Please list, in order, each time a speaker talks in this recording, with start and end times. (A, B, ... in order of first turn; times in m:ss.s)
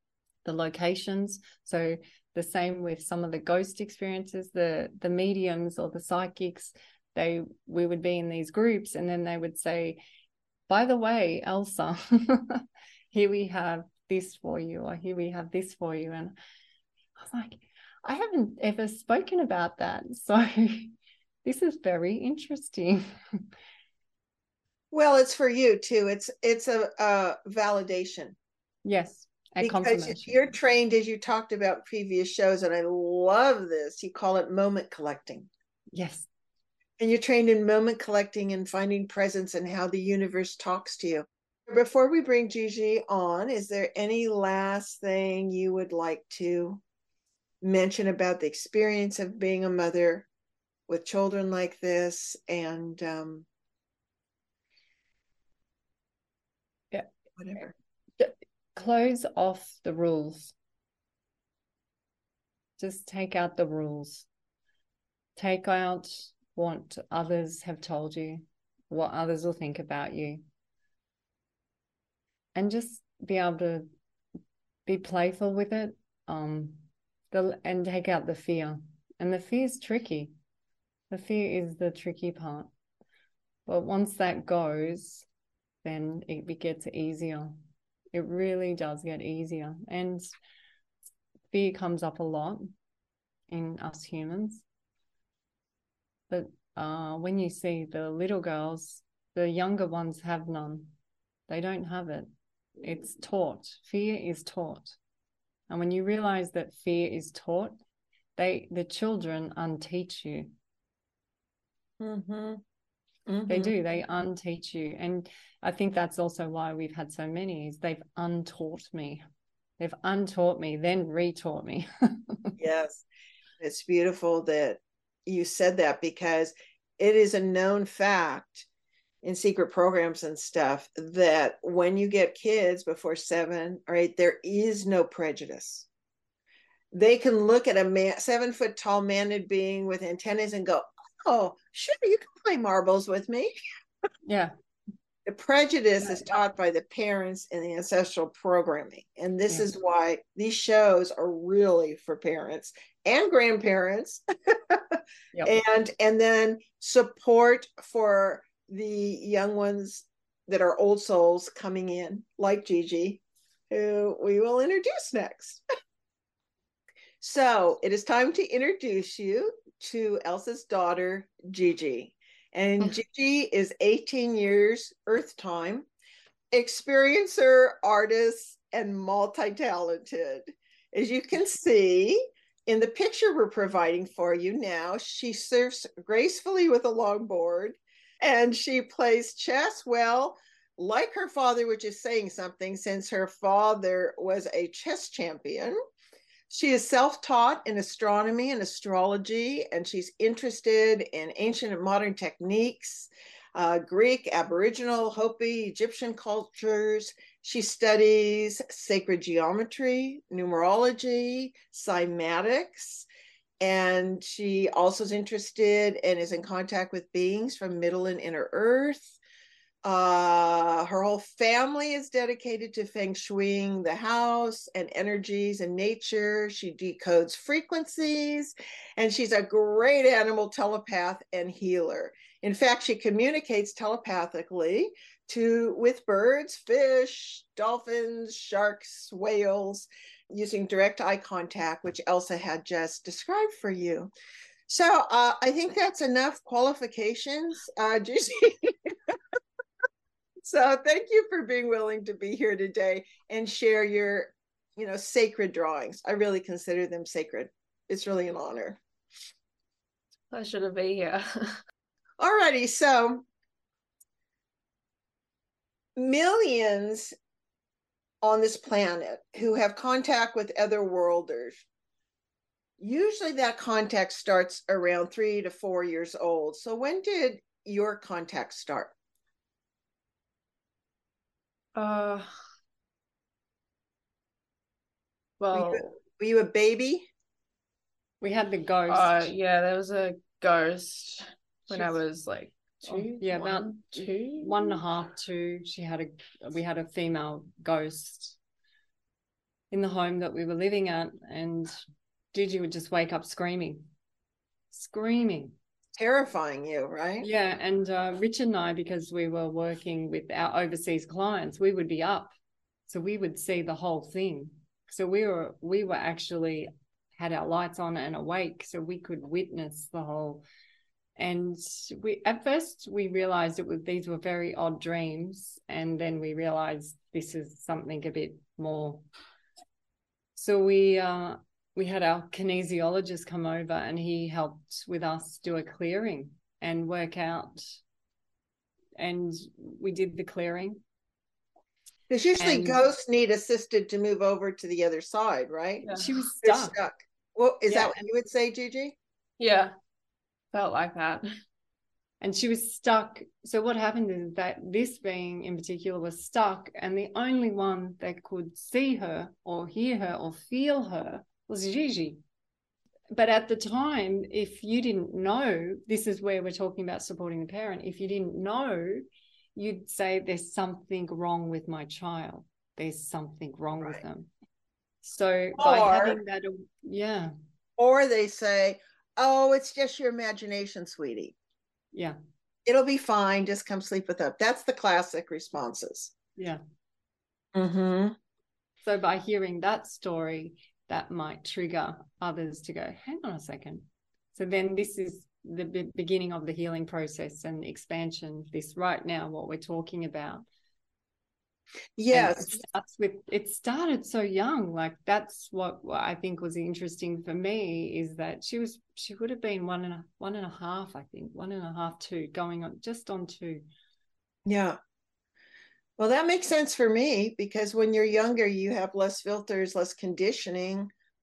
0:00.4-0:10.0 A
0:10.7-0:16.3 A
0:17.2-0:23.4 A
0:24.9-0:28.4 B
0:28.8-0:30.5 A
0:29.6-0:35.5 B
0:35.9-0:36.3 A
0:37.0-0:46.8 B
0:47.6-0:50.3 B
0:50.9-0:53.4 B
0:57.4-0:57.7 B
0:58.2-1:00.5 A
1:02.8-1:04.3 A
1:05.4-1:10.4 A
1:12.5-1:13.9 A
1:14.8-1:20.3 A
1:21.1-1:22.7 A
1:23.7-1:25.2 A
1:25.8-1:27.6 A
1:28.1-1:30.3 A
1:31.5-1:32.7 A
1:33.5-1:34.6 A
1:36.3-1:41.0 A
1:41.5-1:42.3 A
1:42.8-1:45.0 A
1:45.7-1:47.7 A
1:48.4-1:50.5 A
1:52.0-1:52.6 B
1:53.3-1:53.7 B
1:53.5-1:59.2 A
1:59.8-2:02.6 A
2:02.6-2:03.0 B
2:03.6-2:08.7 B
2:09.2-2:15.9 B
2:16.9-2:23.6 B
2:24.2-2:24.5 A
2:25.2-2:45.6 B
2:47.2-2:55.9 B
2:56.5-3:15.8 B
3:16.5-3:33.0 B
3:33.6-3:39.1 B
3:39.8-4:04.1 B
4:04.7-4:09.2 B
4:10.4-4:18.8 B
4:20.3-4:21.6 C
4:22.2-4:23.2 B
4:26.0-4:27.1 B
4:28.2-4:31.6 B
4:32.8-4:38.9 B
4:41.7-4:42.3 C
4:45.4-4:45.9 C
4:45.5-4:47.1 B
4:48.2-4:49.3 A
4:48.9-4:54.8 C
4:52.8-4:58.4 A
4:59.7-5:01.7 A
5:02.3-5:03.9 A
5:04.7-5:05.5 A
5:05.9-5:07.3 B
5:07.2-5:12.3 A
5:12.9-5:20.4 A
5:21.2-5:29.0 A
5:30.4-5:37.8 A
5:39.0-5:40.8 A
5:42.1-5:45.9 B
5:42.4-5:42.8 A
5:45.8-5:46.1 C
5:45.9-5:46.8 A
5:46.4-5:49.0 B
5:49.4-5:49.7 C
5:50.5-5:51.3 C
5:52.2-6:02.2 A
6:03.1-6:09.0 A
6:09.6-6:14.3 A
6:15.0-6:17.3 A
6:15.6-6:16.2 B
6:17.8-6:21.4 B
6:22.6-6:26.1 B
6:27.5-6:28.1 B
6:28.8-6:40.4 A
6:42.0-6:42.6 B
6:42.1-6:53.6 A
6:54.4-6:54.8 B
6:56.0-7:00.9 B